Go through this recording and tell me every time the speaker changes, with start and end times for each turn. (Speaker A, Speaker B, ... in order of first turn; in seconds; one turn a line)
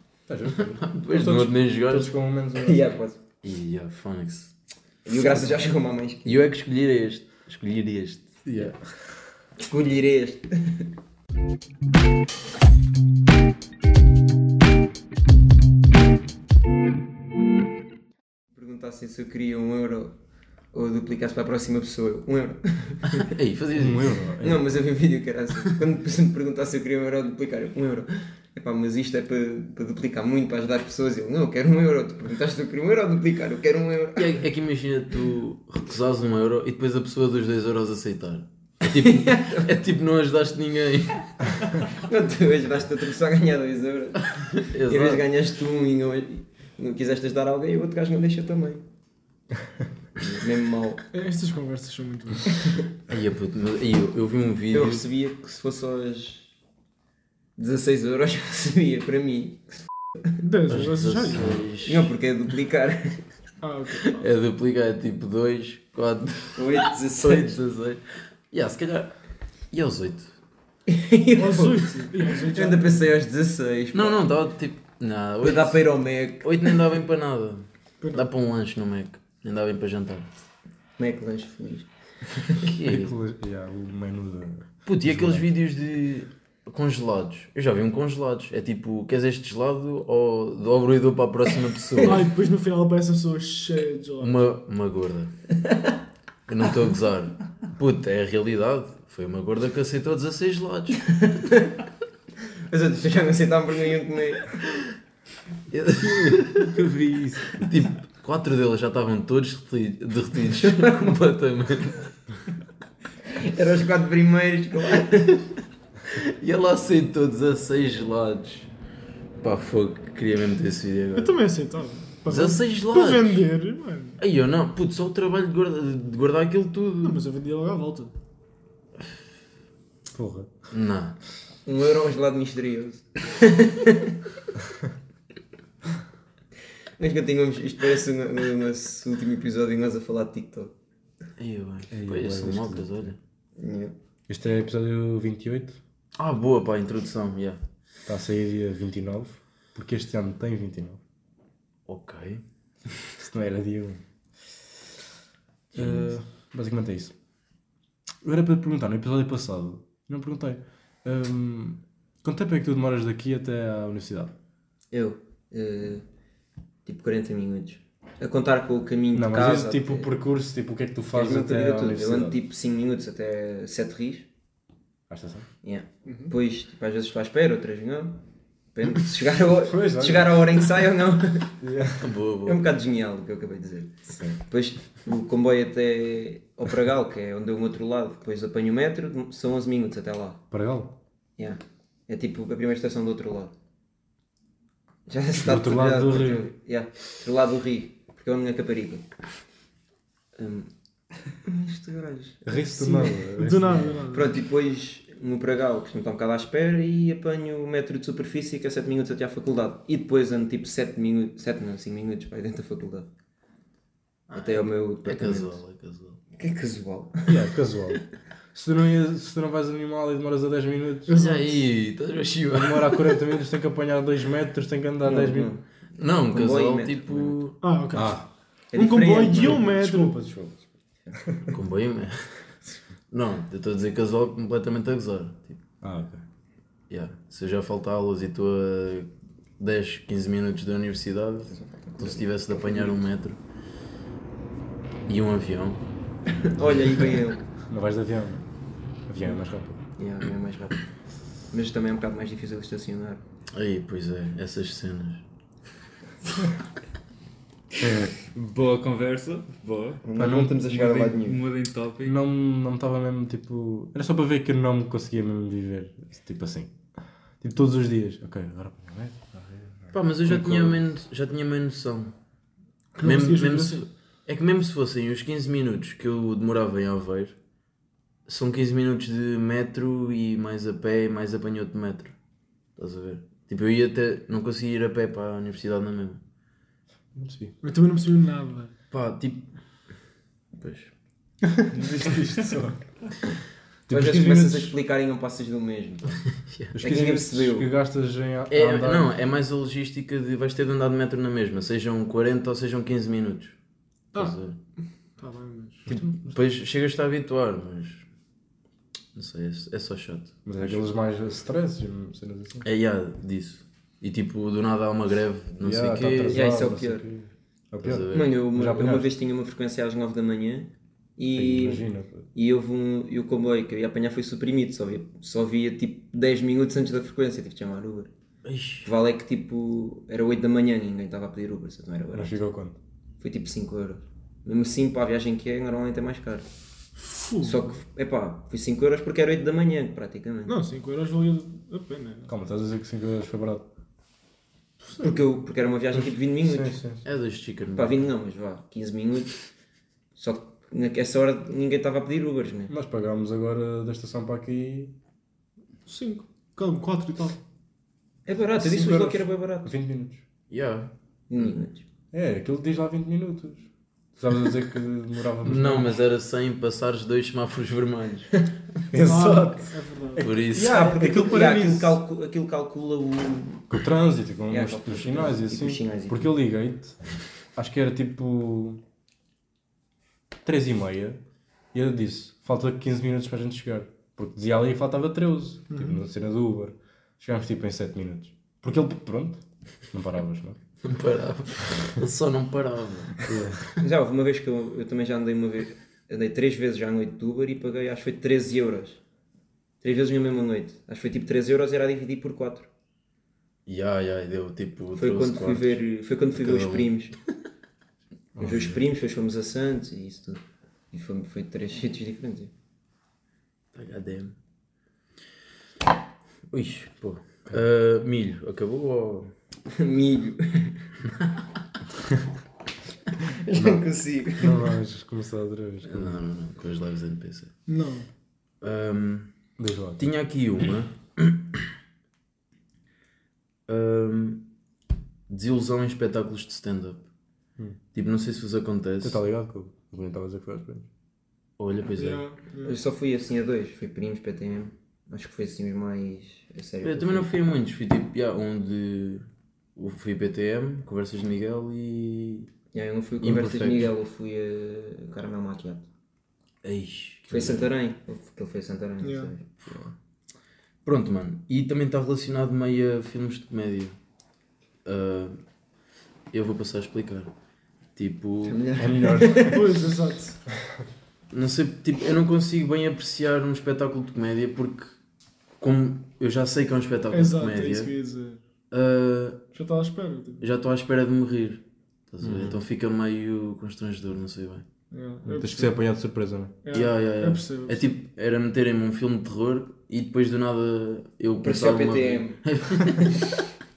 Speaker A: 0.3-2.9
Speaker B: 0.7-2.1
Speaker C: 2.5-3.2
Speaker B: 3.4-4.5
Speaker C: 5.0-6.4
Speaker B: 6.2-8.7
Speaker A: 8.4-8.9
Speaker C: 9.6-10.9
Speaker C: 18.5-20.1
Speaker C: 20.7-23.3
Speaker B: 23.2-24.1
Speaker A: 23.8-24.6
Speaker C: 24.4-34.4
Speaker B: 34.2-41.5
Speaker C: 39.0-39.7
Speaker C: 42.0-48.8
Speaker B: 44.6-45.2
Speaker C: 50.2-51.0
Speaker D: 51.1-52.7
Speaker B: 53.1-55.0
Speaker C: 54.7-56.5
Speaker C: 57.6-59.6
Speaker D: 60.4-61.6
Speaker B: 60.7-62.1
Speaker C: 61.9-63.2
Speaker D: 63.6-64.2
Speaker B: 64.0-69.1
Speaker C: 66.5-67.6
Speaker B: 69.7-70.3
Speaker C: 70.9-74.2
Speaker D: 71.3-73.0
Speaker B: 73.9-75.9
Speaker C: 75.4-76.8
Speaker B: 76.4-80.3
Speaker D: 78.0-78.3
Speaker C: 81.0-81.9
Speaker C: 82.4-82.7
Speaker B: 82.7-83.2
Speaker A: 82.8-85.5
Speaker B: 84.8-92.3
Speaker D: 92.0-94.4
Speaker B: 94.2-95.3
Speaker B: 96.5-101.1
Speaker C: 101.2-101.7
Speaker C: 102.7-104.6
Speaker B: 105.7-106.8
Speaker A: 106.0-107.7
Speaker B: 107.6-112.1
Speaker C: 110.6-111.1
Speaker C: 113.3-115.4
Speaker B: 116.1-118.7
Speaker B: 119.4-121.4
Speaker D: 121.2-124.2
Speaker B: 122.3-123.5
Speaker B: 124.2-127.2
Speaker D: 127.0-128.1
Speaker A: 130.1-130.5
Speaker B: 130.7-131.2
Speaker C: 131.7-134.2
Speaker C: 137.0-140.7
Speaker B: 141.4-143.2
Speaker A: 141.9-143.1
Speaker C: 143.6-143.9
Speaker A: 144.3-145.8
Speaker B: 146.2-147.6
Speaker A: 148.1-151.0
Speaker B: 151.9-152.4
Speaker A: 153.2-154.0
Speaker B: 155.7-156.1
Speaker A: 155.8-157.2
Speaker A: 158.2-164.3
Speaker C: 164.9-166.0
Speaker C: 166.8-170.1
Speaker A: 169.1-172.4
Speaker C: 171.1-174.3
Speaker A: 175.1-175.5
Speaker C: 175.6-178.2
Speaker D: 176.1-176.3
Speaker C: 178.7-181.5
Speaker A: 179.7-180.5
Speaker A: 181.6-182.1
Speaker B: 182.0-182.6
Speaker C: 182.4-190.4
Speaker A: 190.5-190.9
Speaker C: 191.4-193.5
Speaker C: 195.1-199.1
Speaker A: 195.4-196.5
Speaker C: 200.3-200.7
Speaker C: 201.4-202.7
Speaker A: 202.4-204.1
Speaker D: 202.7-204.3
Speaker C: 204.1-213.1
Speaker B: 214.3-216.2
Speaker C: 214.4-215.6
Speaker C: 216.3-217.4
Speaker A: 217.3-221.1
Speaker D: 221.1-221.6
Speaker B: 221.1-223.2
Speaker A: 222.5-225.5
Speaker C: 225.0-225.6
Speaker B: 226.0-227.6
Speaker C: 226.3-227.4
Speaker D: 227.6-230.2
Speaker A: 227.9-228.3
Speaker C: 228.7-229.7
Speaker A: 229.3-230.7
Speaker B: 231.5-232.3
Speaker B: 233.1-235.6
Speaker A: 235.8-236.2
Speaker B: 236.9-243.4
Speaker C: 241.5-243.0
Speaker B: 245.1-245.8
Speaker C: 246.5-247.4
Speaker A: 247.7-248.4
Speaker A: 249.1-249.8
Speaker C: 250.0-250.8
Speaker C: 251.5-253.2
Speaker B: 253.5-255.2
Speaker A: 257.8-258.1
Speaker E: 257.8-260.0
Speaker C: 260.0-261.4
Speaker A: 260.2-260.6
Speaker E: 260.6-262.2
Speaker A: 262.0-266.8
Speaker A: 267.4-270.7
Speaker B: 269.9-272.1
Speaker D: 272.9-273.9
Speaker B: 273.0-277.4
Speaker B: 278.3-282.1
Speaker B: 282.8-286.2
Speaker A: 287.1-287.6
Speaker D: 287.6-288.7
Speaker B: 288.9-289.5
Speaker B: 290.6-290.9
Speaker A: 291.5-292.8
Speaker E: 291.8-292.1
Speaker A: 293.9-294.8
Speaker C: 293.9-296.2
Speaker B: 296.4-296.8
Speaker A: 296.7-299.1
Speaker C: 296.8-297.7
Speaker B: 298.5-303.6
Speaker B: 304.1-304.6
Speaker D: 305.2-305.9
Speaker B: 305.9-308.1
Speaker B: 309.1-310.9
Speaker A: 310.4-312.6
Speaker B: 312.6-316.4
Speaker A: 315.6-319.1
Speaker C: 316.3-317.1
Speaker B: 317.8-318.4
Speaker C: 318.1-328.1
Speaker A: 321.3-322.3
Speaker B: 328.4-328.9
Speaker C: 328.8-332.4
Speaker A: 332.1-332.8
Speaker C: 333.2-336.5
Speaker D: 337.0-337.7
Speaker C: 337.4-340.6
Speaker D: 340.4-342.3
Speaker A: 342.3-343.7
Speaker C: 345.0-346.8
Speaker A: 345.9-347.0
Speaker B: 347.0-348.1
Speaker C: 347.8-349.4
Speaker C: 350.2-352.7
Speaker A: 352.7-354.9
Speaker D: 355.9-357.4
Speaker C: 358.3-359.7
Speaker A: 358.6-360.2
Speaker B: 360.5-361.6
Speaker C: 361.3-361.8
Speaker A: 362.1-366.0
Speaker B: 365.4-368.3
Speaker A: 368.9-372.0
Speaker D: 369.0-370.3
Speaker B: 370.2-370.9
Speaker C: 370.5-373.7
Speaker A: 373.7-377.0
Speaker C: 374.5-376.3
Speaker A: 377.6-378.8
Speaker A: 380.4-381.2
Speaker A: 381.7-390.6
Speaker D: 385.7-386.0
Speaker B: 390.8-393.3
Speaker A: 393.3-393.6
Speaker C: 393.8-399.0
Speaker C: 399.8-402.7
Speaker B: 403.7-405.8
Speaker C: 404.9-407.2
Speaker B: 406.3-406.9
Speaker A: 408.4-408.8
Speaker C: 408.4-412.5
Speaker B: 413.7-414.3
Speaker B: 416.5-419.3
Speaker C: 419.7-420.9
Speaker C: 423.2-424.6
Speaker A: 423.5-423.8
Speaker A: 424.4-426.3
Speaker B: 425.8-427.5
Speaker D: 427.7-428.1
Speaker B: 428.6-429.3
Speaker A: 429.6-430.1
Speaker B: 430.0-431.6
Speaker B: 433.7-434.5
Speaker B: 435.3-437.1
Speaker B: 437.9-439.2
Speaker A: 439.0-440.9
Speaker B: 441.6-442.3
Speaker D: 441.9-442.8
Speaker C: 442.6-447.4
Speaker B: 446.8-452.5
Speaker C: 452.7-455.9
Speaker B: 453.2-453.9
Speaker B: 456.6-457.7
Speaker C: 457.3-459.4
Speaker D: 459.0-459.3
Speaker B: 460.8-464.0
Speaker B: 464.8-465.4
Speaker B: 466.3-467.3
Speaker B: 467.9-468.6
Speaker C: 468.4-469.7
Speaker A: 468.8-469.7
Speaker D: 469.4-470.4
Speaker B: 471.3-474.9
Speaker B: 475.6-477.9
Speaker D: 477.1-478.4
Speaker B: 478.7-479.4
Speaker D: 479.5-480.4
Speaker B: 480.4-484.6
Speaker A: 482.2-482.6
Speaker D: 484.9-485.8
Speaker A: 485.2-486.5
Speaker D: 486.6-487.9
Speaker B: 486.7-493.1
Speaker C: 491.4-493.1